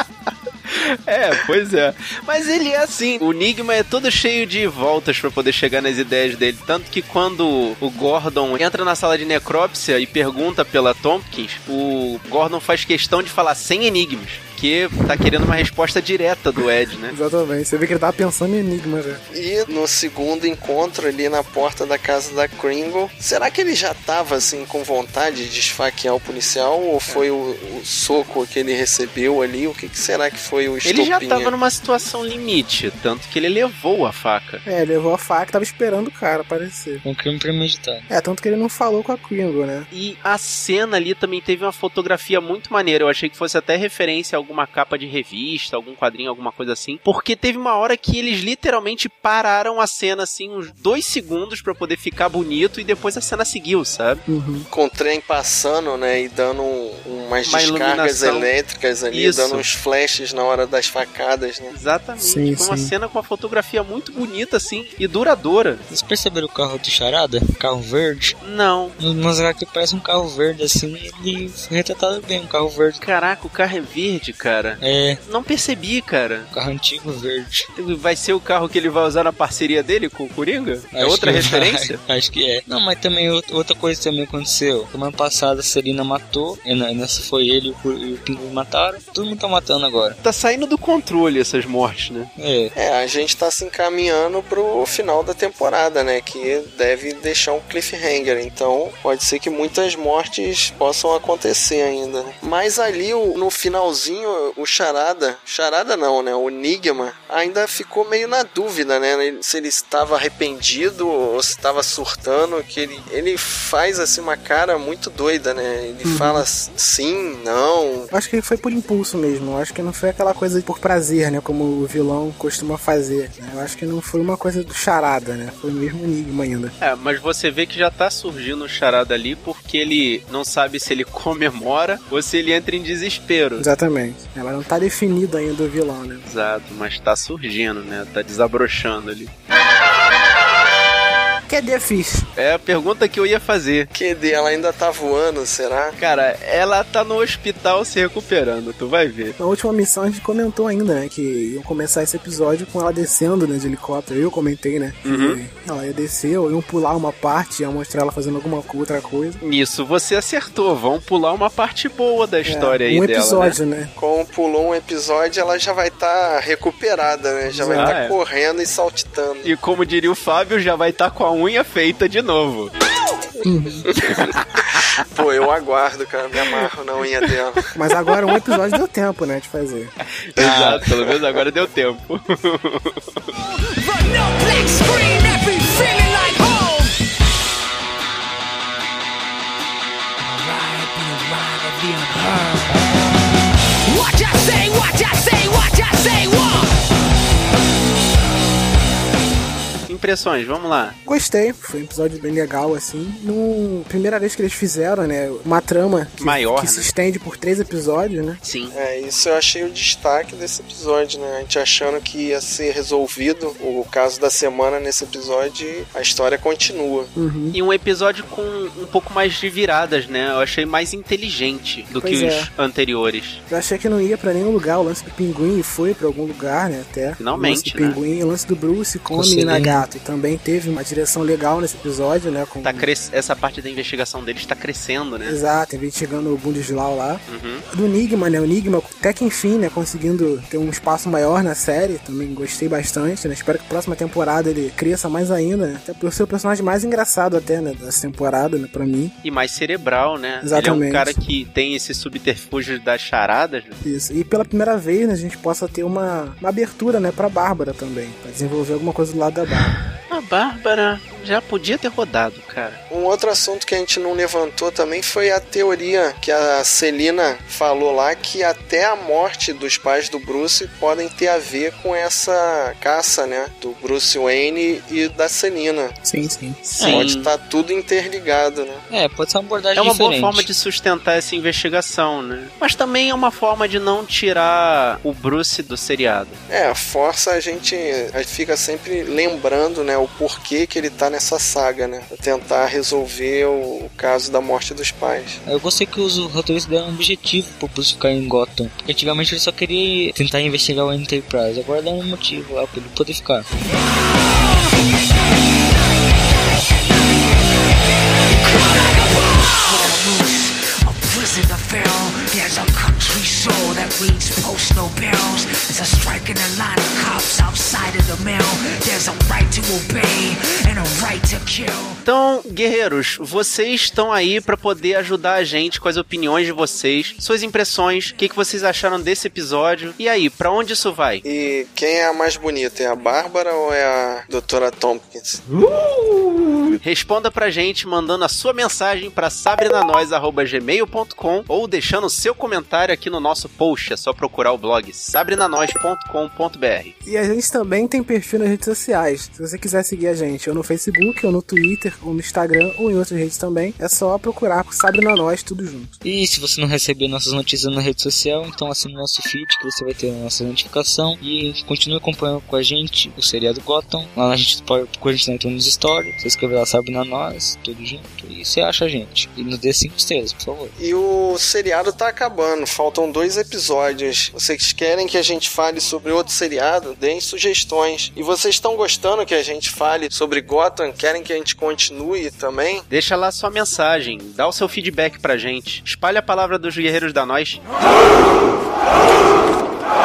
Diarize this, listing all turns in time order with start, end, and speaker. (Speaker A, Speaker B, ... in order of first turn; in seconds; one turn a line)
Speaker A: 0.7-17.2
Speaker B: 17.1-19.2
Speaker C: 19.3-31.5
Speaker A: 30.8-34.6
Speaker B: 34.6-37.0
Speaker D: 37.0-38.1
Speaker B: 38.1-39.9
Speaker A: 39.9-54.2
Speaker B: 54.3-54.7
Speaker C: 54.7-61.7
Speaker A: 57.5-58.5
Speaker A: 59.1-59.7
Speaker A: 61.7-65.8
Speaker B: 62.2-62.9
Speaker D: 65.9-68.4
Speaker A: 68.4-69.0
Speaker D: 69.0-73.0
Speaker A: 73.0-76.5
Speaker D: 74.8-75.2
Speaker D: 76.5-77.7
Speaker A: 77.8-82.0
Speaker D: 80.9-90.2
Speaker A: 90.2-92.3
Speaker D: 92.4-92.7
Speaker C: 92.8-118.1
Speaker B: 116.0-116.5
Speaker B: 118.1-126.7
Speaker A: 126.8-133.7
Speaker B: 133.6-136.3
Speaker A: 136.3-139.3
Speaker B: 141.5-142.3
Speaker A: 142.4-143.9
Speaker C: 143.9-146.0
Speaker A: 146.0-149.4
Speaker B: 149.4-159.4
Speaker A: 155.1-155.4
Speaker A: 159.4-163.6
Speaker B: 162.4-163.9
Speaker C: 164.0-169.5
Speaker B: 167.5-168.0
Speaker A: 167.7-168.2
Speaker A: 169.4-172.7
Speaker B: 173.4-173.9
Speaker A: 174.0-174.3
Speaker C: 175.0-177.6
Speaker B: 177.8-179.9
Speaker A: 180.3-183.0
Speaker D: 180.4-180.8
Speaker E: 183.4-187.0
Speaker E: 190.2-192.9
Speaker E: 193.8-196.7
Speaker A: 199.9-201.0
Speaker B: 201.1-208.4
Speaker A: 206.2-206.9
Speaker A: 208.4-208.8
Speaker C: 208.7-217.1
Speaker B: 217.2-217.6
Speaker A: 217.5-223.4
Speaker B: 221.9-222.5
Speaker B: 223.5-232.9
Speaker A: 227.2-228.0
Speaker D: 229.1-229.8
Speaker A: 232.6-235.4
Speaker B: 235.3-249.1
Speaker A: 237.3-237.7
Speaker A: 249.2-253.8
Speaker B: 250.4-251.2
Speaker B: 253.8-259.8
Speaker A: 260.1-262.8
Speaker C: 262.9-276.0
Speaker B: 276.0-276.6
Speaker A: 276.6-277.3
Speaker D: 276.8-277.1
Speaker C: 276.8-278.8
Speaker D: 278.9-280.5
Speaker A: 279.8-286.4
Speaker C: 286.5-295.4
Speaker D: 295.5-303.5
Speaker E: 304.0-305.6
Speaker E: 308.2-322.0
Speaker A: 322.1-331.2
Speaker C: 331.2-335.4
Speaker A: 336.8-346.9
Speaker B: 347.1-355.9
Speaker D: 356.0-370.7
Speaker C: 370.8-382.9
Speaker A: 382.9-387.6